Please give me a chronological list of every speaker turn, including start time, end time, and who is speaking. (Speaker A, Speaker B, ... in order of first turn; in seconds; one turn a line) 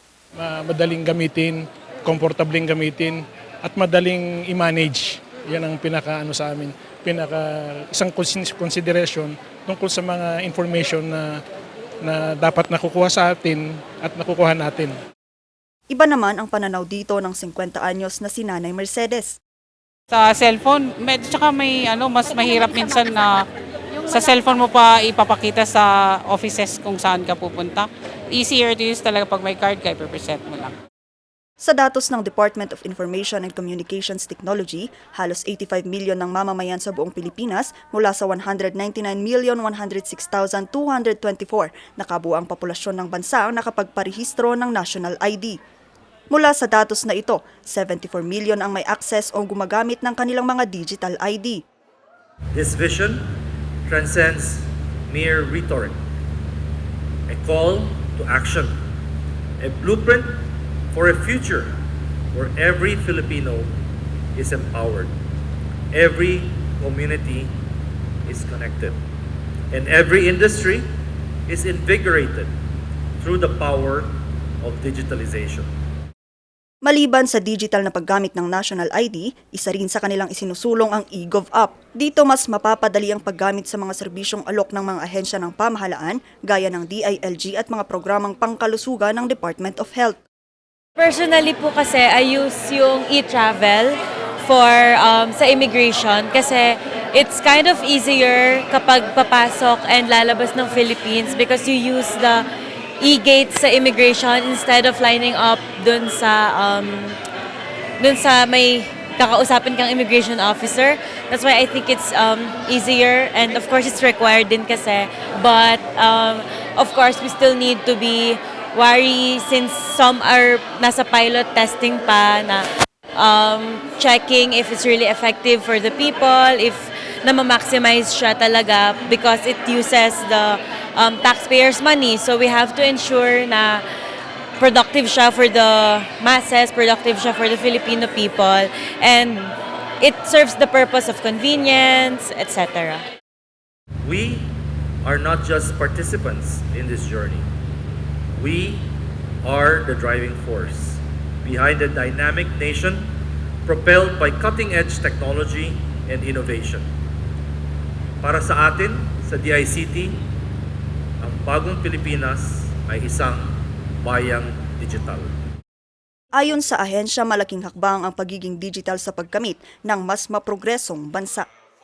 Speaker A: 0.4-11.4
Speaker A: 12.0-14.9
Speaker B: 15.9-19.4
Speaker C: 20.1-23.5
Speaker C: 24.1-30.8
Speaker B: 31.6-45.6
Speaker B: 46.3-51.6
Speaker D: 52.5-53.3
Speaker D: 53.9-56.0
Speaker D: 57.3-58.7
Speaker D: 59.6-61.7
Speaker D: 62.3-63.7
Speaker D: 64.4-65.1
Speaker D: 65.9-67.5
Speaker D: 68.3-69.0
Speaker D: 69.7-70.9
Speaker D: 71.5-72.5
Speaker D: 73.2-75.7
Speaker B: 76.8-90.2
Speaker E: 91.0-102.5
Speaker E: 103.0-107.2
Speaker E: 108.0-133.8
Speaker E: 134.6-143.0
Speaker D: 144.0-147.5
Speaker D: 148.4-148.9
Speaker D: 149.4-156.9
Speaker D: 158.2-160.3
Speaker D: 161.2-165.3
Speaker B: 166.4-171.5